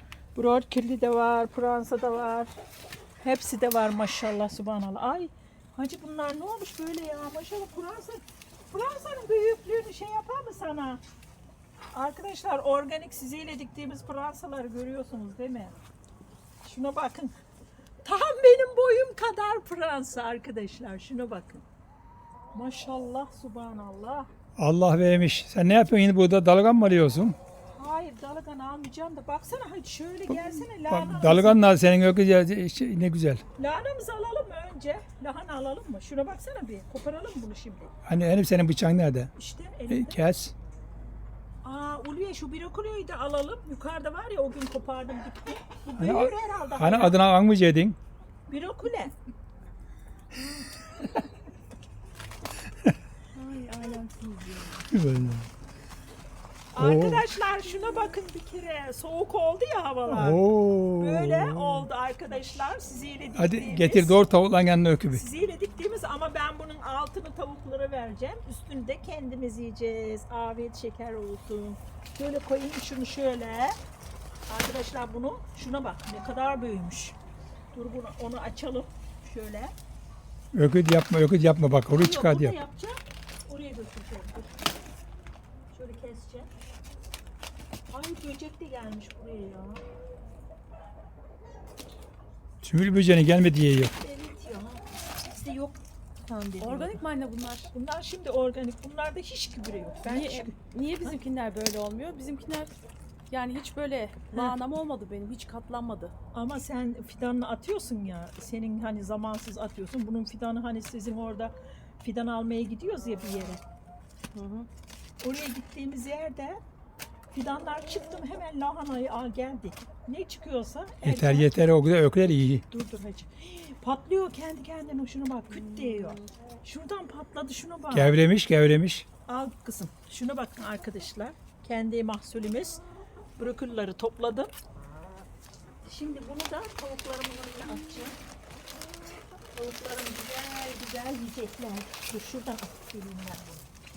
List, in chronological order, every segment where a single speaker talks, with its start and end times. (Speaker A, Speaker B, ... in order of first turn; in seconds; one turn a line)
Speaker A: 0.3-2.5
Speaker A: 3.2-11.0
Speaker A: 11.9-15.8
Speaker A: 16.6-17.3
Speaker A: 18.0-21.6
Speaker A: 22.5-24.3
Speaker B: 24.6-27.4
Speaker A: 27.7-31.7
Speaker B: 30.3-33.4
Speaker A: 33.6-37.9
Speaker B: 38.1-39.3
Speaker A: 39.4-40.2
Speaker B: 39.9-40.5
Speaker A: 41.6-47.3
Speaker B: 46.0-48.0
Speaker A: 48.5-49.1
Speaker C: 53.3-54.9
Speaker B: 54.9-55.5
Speaker A: 56.7-60.4
Speaker B: 56.8-57.3
Speaker B: 60.1-61.9
Speaker A: 61.0-64.2
Speaker B: 63.4-65.2
Speaker A: 65.1-73.8
Speaker A: 74.5-77.2
Speaker A: 77.7-79.7
Speaker B: 80.5-82.6
Speaker A: 81.9-84.6
Speaker A: 85.7-86.5
Speaker A: 87.9-89.8
Speaker B: 92.6-94.0
Speaker A: 93.9-97.0
Speaker C: 96.6-97.7
Speaker A: 97.7-101.2
Speaker C: 100.0-102.7
Speaker C: 103.3-106.1
Speaker A: 106.3-113.6
Speaker C: 114.3-114.7
Speaker A: 115.2-116.6
Speaker A: 117.3-121.5
Speaker B: 121.0-122.6
Speaker A: 122.7-128.2
Speaker B: 127.9-129.1
Speaker A: 129.3-132.8
Speaker A: 133.4-134.5
Speaker A: 135.8-138.2
Speaker A: 139.5-143.7